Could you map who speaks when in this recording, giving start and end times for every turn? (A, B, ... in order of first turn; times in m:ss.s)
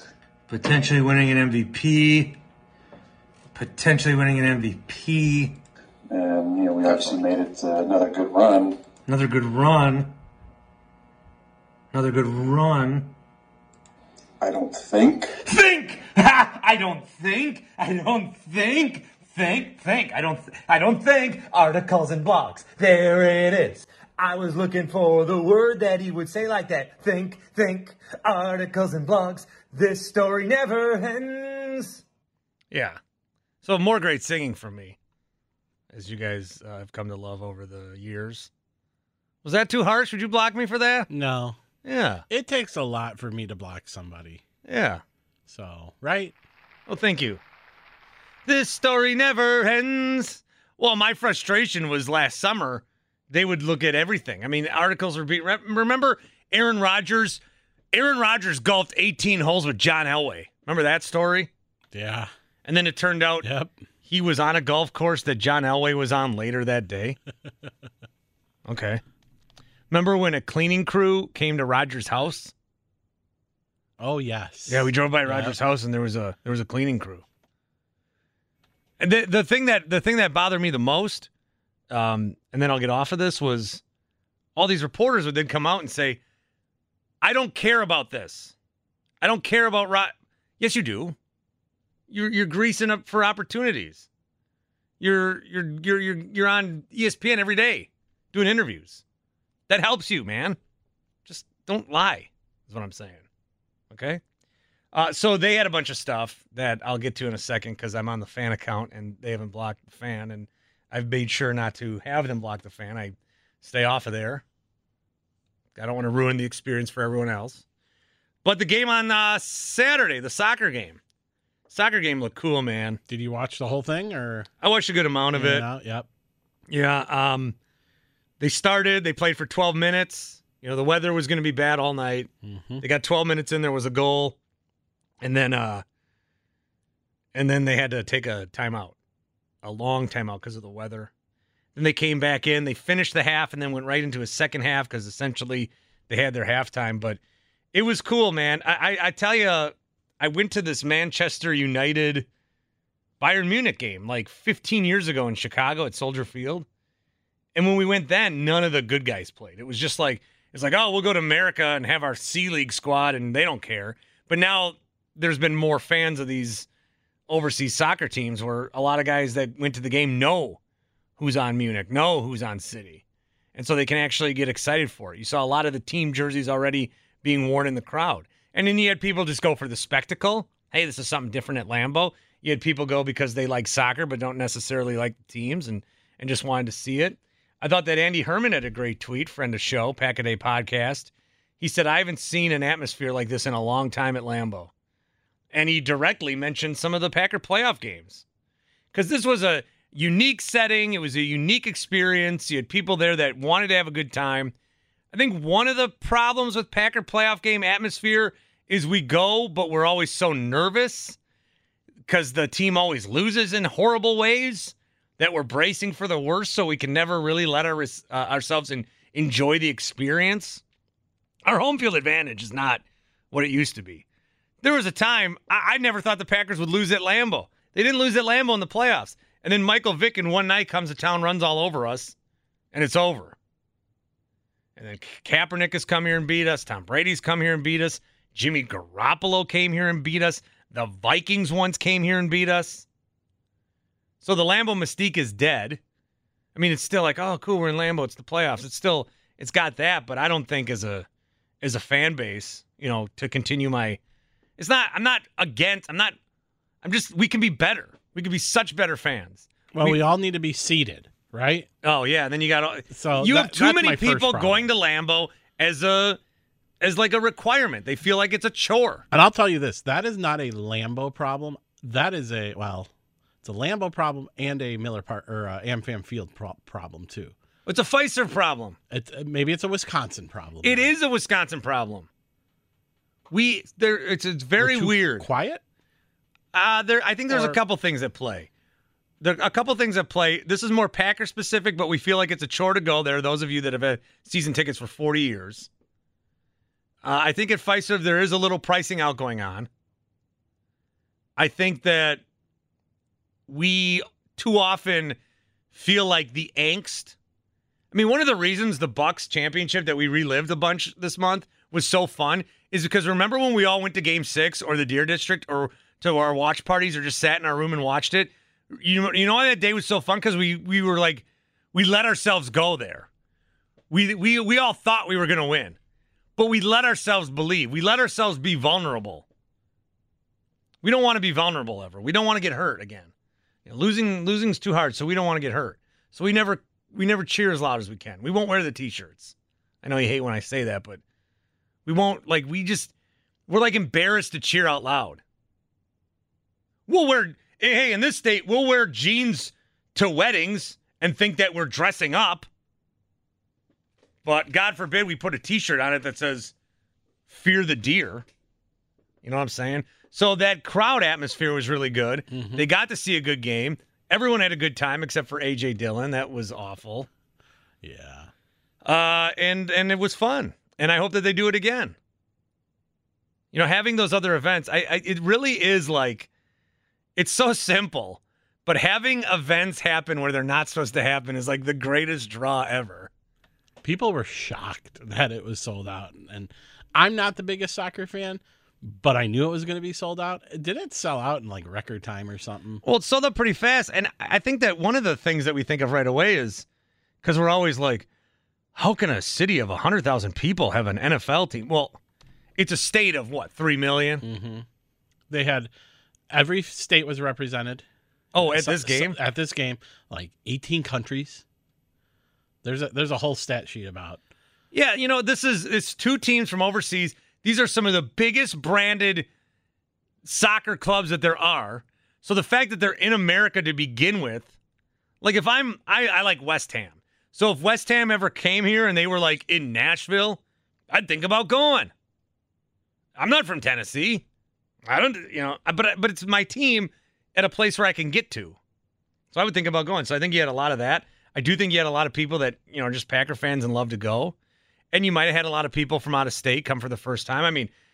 0:00.5-0:02.4 A
0:03.5-0:05.6 A
0:06.1-0:08.8 B
0:09.1-0:10.2 A
0:11.9-0:13.1 A
0:14.4-0:15.3 B
0:15.5-0:32.0 A
0:32.7-0:33.0 A
0:33.6-0:35.0 A
0:35.9-0:38.5 A
0:39.4-0:41.1 A
0:41.1-0:41.6 C
0:41.8-0:42.2 A
0:42.3-0:44.4 C
0:44.6-0:45.0 A
0:45.5-0:46.4 C
0:46.9-0:47.4 A
0:48.5-0:57.4 A
0:57.9-1:01.5 A
1:01.9-1:02.3 C
1:02.6-1:03.5 A
1:03.4-1:03.8 C
1:04.1-1:07.2 A
1:08.6-1:09.0 A
1:09.9-1:12.5 A
1:14.0-1:15.6 C
1:14.7-1:17.2 A
1:19.0-1:21.3 A
1:21.9-1:23.8 A
1:24.6-1:26.2 A
1:27.2-1:28.6 A
1:29.2-1:31.2 A
1:32.1-1:34.1 A
1:35.0-1:39.0 A
1:39.7-1:40.6 A
1:41.3-1:43.2 A
1:43.9-1:44.2 A
1:44.9-1:54.4 A
1:55.8-1:57.6 A
1:58.4-2:01.0 A
2:01.7-2:03.0 A
2:03.1-2:04.5 C
2:04.6-2:05.7 A
2:05.3-2:06.1 C
2:06.7-2:07.6 A
2:08.4-2:14.4 A
2:12.4-2:12.8 C
2:15.2-2:15.8 A
2:17.3-2:19.0 A
2:19.6-2:21.1 A
2:21.8-2:27.2 A
2:27.7-2:32.3 A
2:33.2-2:36.7 A
2:37.6-2:46.7 A
2:47.3-2:50.6 A
2:51.2-2:53.0 A
2:53.6-3:14.7 A
3:15.5-3:18.2 A
3:18.9-3:24.5 A
3:25.1-3:31.2 A
3:32.1-3:40.6 A
3:41.4-3:44.0 A
3:44.6-3:52.2 A
3:52.7-3:53.4 A
3:54.8-4:02.9 A
4:04.2-4:05.8 A
4:06.6-4:11.1 A
4:11.6-4:14.0 A
4:14.6-4:16.2 A
4:16.8-4:20.0 A
4:19.7-4:21.7 C
4:21.8-4:26.2 A
4:22.9-4:24.7 C
4:26.8-4:29.0 A
4:29.1-4:32.9 C
4:33.4-4:37.4 C
4:37.7-4:38.8 A
4:38.9-4:40.9 C
4:40.6-4:42.1 A
4:43.3-4:45.3 A
4:44.6-4:45.6 C
4:46.5-4:48.5 A
4:47.3-4:47.6 C
4:49.2-4:55.7 A
4:57.0-4:59.7 A
5:01.4-5:02.2 A
5:03.5-5:05.2 A
5:05.7-5:07.2 A
5:07.9-5:23.1 A
5:23.9-5:25.8 A
5:26.4-5:29.3 A
5:30.8-5:33.1 A
5:33.7-5:41.0 A
5:41.9-5:42.9 A
5:43.5-5:45.2 A
5:46.9-5:52.5 A
5:54.2-5:56.5 A
5:57.3-5:58.3 A
5:59.2-6:07.1 A
6:02.3-6:02.7 C
6:07.8-6:08.3 C
6:08.8-6:12.0 A
6:13.5-6:16.3 A
6:17.2-6:23.1 A
6:23.8-6:32.8 C
6:32.8-6:36.7 A
6:37.2-6:38.1 A
6:38.8-6:42.0 A
6:42.6-6:44.2 A
6:44.2-6:44.7 C
6:45.3-6:45.7 C
6:46.3-6:51.4 C
6:48.3-6:49.2 A
6:52.6-6:54.2 C
6:54.7-6:59.3 A
7:00.2-7:04.5 A
7:05.2-7:11.9 A
7:13.2-7:14.2 A
7:14.9-7:18.6 A
7:19.3-7:24.4 A
7:24.9-7:27.7 A